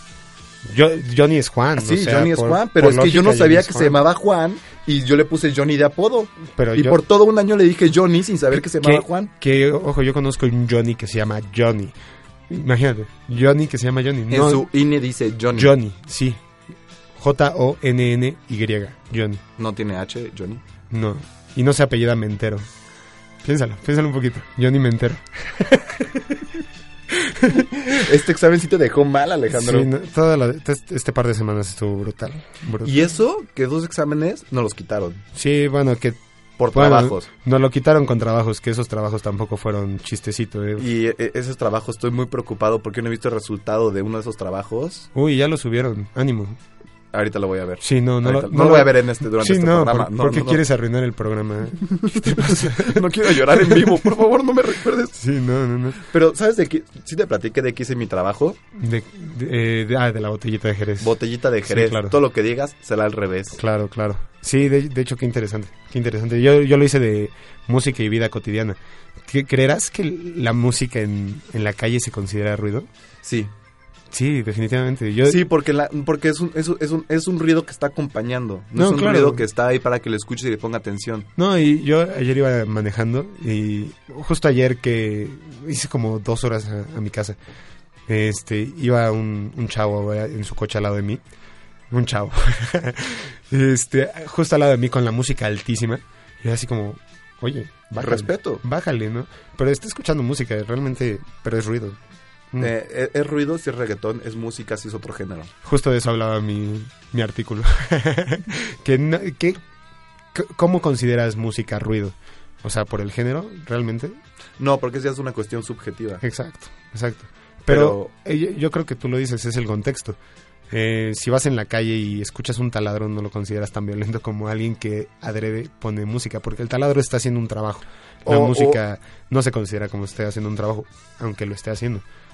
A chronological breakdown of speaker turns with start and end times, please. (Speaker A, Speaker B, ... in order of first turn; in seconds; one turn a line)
Speaker A: 0.6-4.0
Speaker B: 1.8-9.3
Speaker A: 6.5-7.0
Speaker A: 8.5-11.9
Speaker A: 12.5-14.7
Speaker B: 14.3-15.7
Speaker A: 15.5-16.4
Speaker A: 17.1-19.4
Speaker B: 19.6-20.6
Speaker A: 20.9-22.7
Speaker A: 23.4-26.4
Speaker A: 27.1-27.8
Speaker B: 27.8-29.9
Speaker A: 29.5-33.0
Speaker B: 32.8-35.2
Speaker A: 35.3-36.2
Speaker B: 36.6-37.3
Speaker A: 36.7-40.9
Speaker B: 40.8-45.1
Speaker A: 45.1-46.6
Speaker B: 47.1-50.6
Speaker A: 47.8-54.0
Speaker B: 51.8-55.2
Speaker A: 55.1-56.0
Speaker B: 56.0-58.6
Speaker A: 58.7-61.2
Speaker B: 61.0-63.6
Speaker A: 61.7-62.2
Speaker A: 63.6-72.9
Speaker B: 73.2-73.5
Speaker A: 74.1-75.4
Speaker B: 75.2-81.3
Speaker A: 78.8-79.4
Speaker A: 81.4-87.4
Speaker A: 88.1-91.2
Speaker A: 91.9-102.0
Speaker B: 98.0-98.6
Speaker B: 102.6-105.5
Speaker A: 105.6-109.6
Speaker A: 110.3-114.2
Speaker B: 114.6-116.2
Speaker A: 116.2-120.2
Speaker B: 117.7-118.1
Speaker A: 120.7-132.1
Speaker B: 128.2-128.8